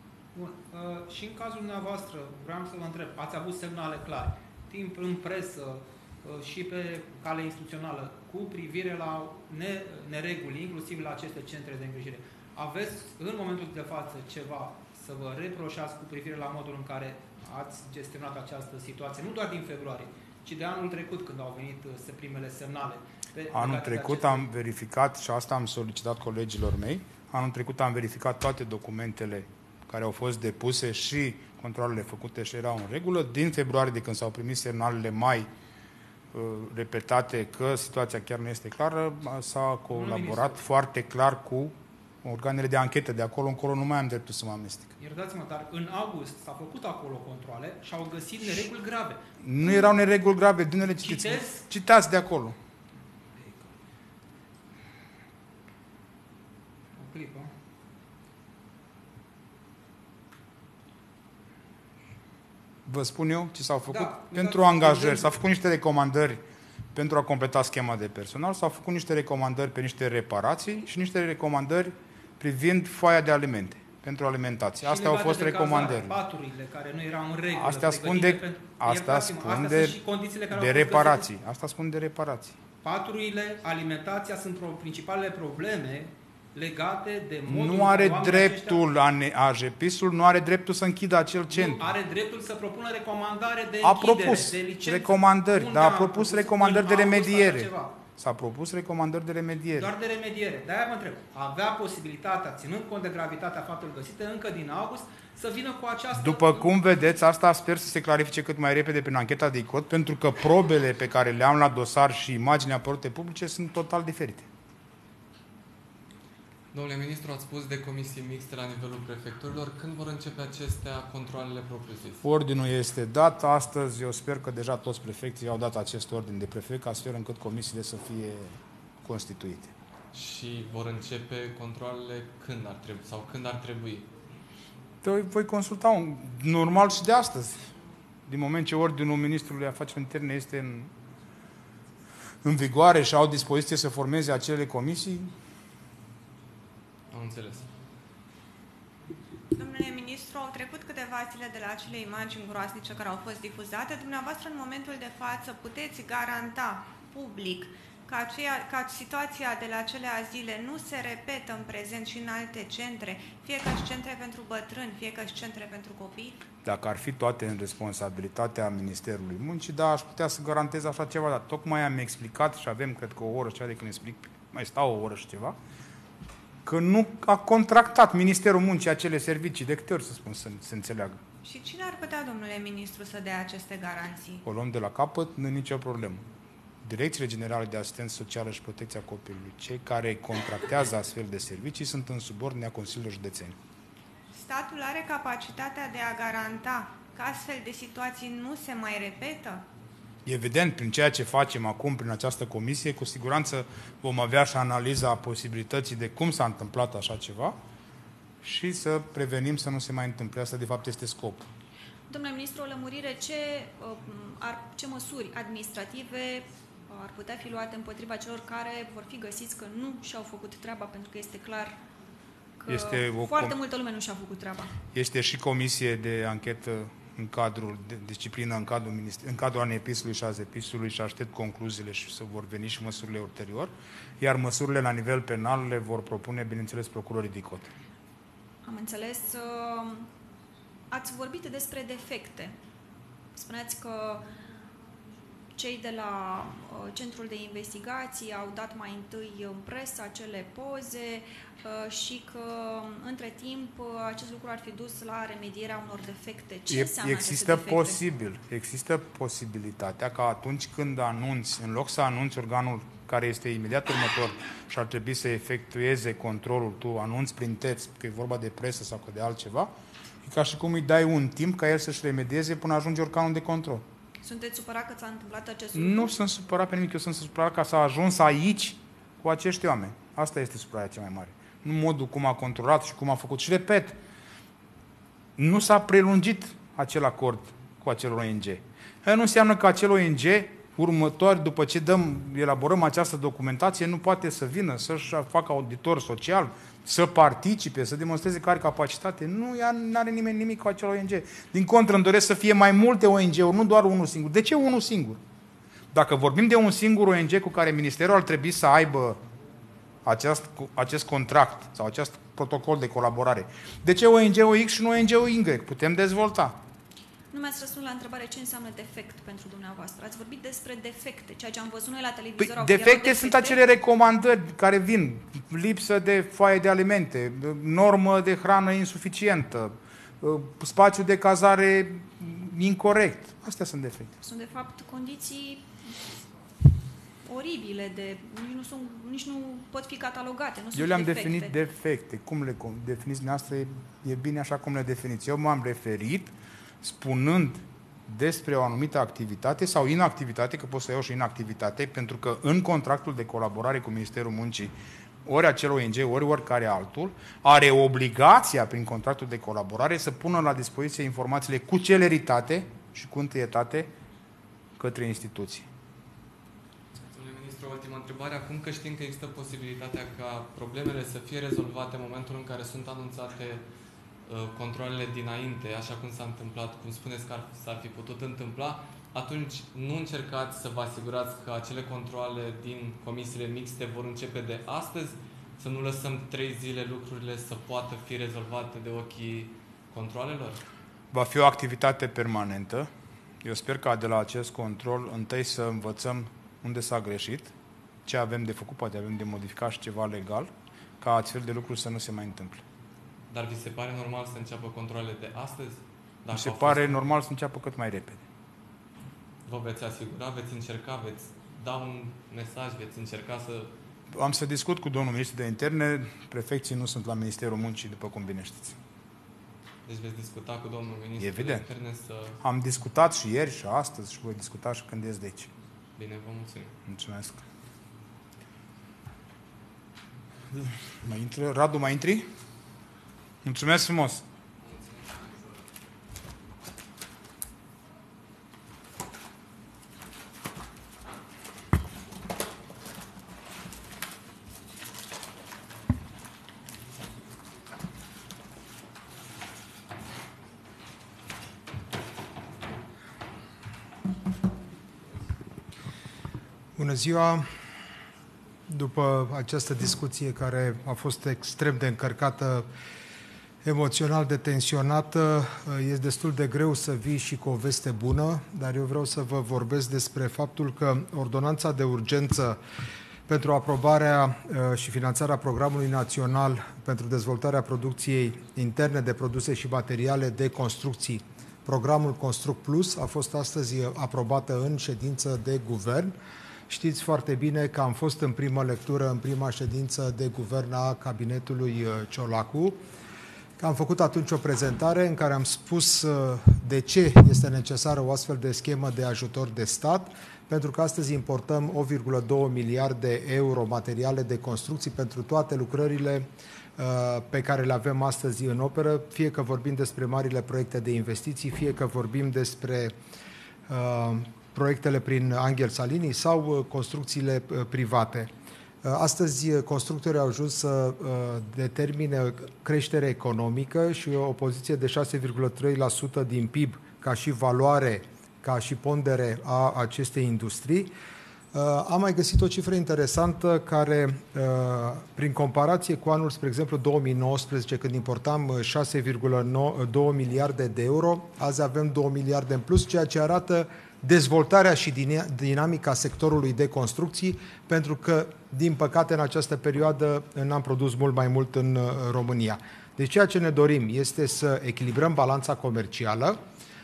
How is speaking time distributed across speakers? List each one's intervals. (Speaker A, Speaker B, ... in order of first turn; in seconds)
Speaker A: 0.3-24.5, 39.9-40.6, 45.0-50.0, 50.9-51.6, 53.4-53.7, 57.0-57.5, 63.9-65.4, 74.8-81.3, 82.8-88.8, 91.5-98.0, 99.7-106.7
Speaker B: 23.5-35.5, 36.3-44.9, 49.4-52.6, 62.9-66.4, 67.0-76.2, 77.5-80.0, 80.5-82.6, 87.5-91.9, 93.8-99.9, 106.2-114.5, 122.2-129.7, 135.0-137.7, 138.3-140.9, 142.4-145.3, 166.6-175.6, 176.7-181.2, 184.4-186.2, 186.8-193.6, 200.3-207.6, 208.4-211.5, 222.7-223.6, 224.9-237.7, 256.7-269.7, 270.2-273.9, 275.7-284.0, 285.4-305.2, 305.9-309.2, 310.1-316.6, 322.4-334.1, 340.7-354.7, 355.2-363.9, 364.8-365.7, 391.1-392.9, 393.4-397.5, 398.1-400.5, 401.0-402.6, 406.3-408.2, 414.1-418.8, 421.2-421.7, 422.4-425.5, 426.9-427.4, 430.6-432.3, 433.4-434.2
Speaker C: 116.7-122.2, 130.1-134.1, 147.1-147.7, 367.0-373.6, 374.3-390.6, 403.3-407.1, 409.4-413.7, 419.9-422.4, 426.0-426.8, 434.6-435.5
Speaker D: 149.5-166.4, 181.4-184.4, 194.3-199.6
Speaker E: 212.1-221.7, 222.6-224.8, 238.7-240.1, 240.9-242.5, 243.3-244.2, 245.6-258.0, 274.2-276.2, 317.3-323.6, 334.2-336.0, 337.2-341.5
Speaker F: 456.8-457.5, 458.7-462.7, 463.6-472.6, 473.3-486.1, 486.7-492.8, 493.6-512.9, 513.7-518.3, 518.8-530.9, 531.5-556.4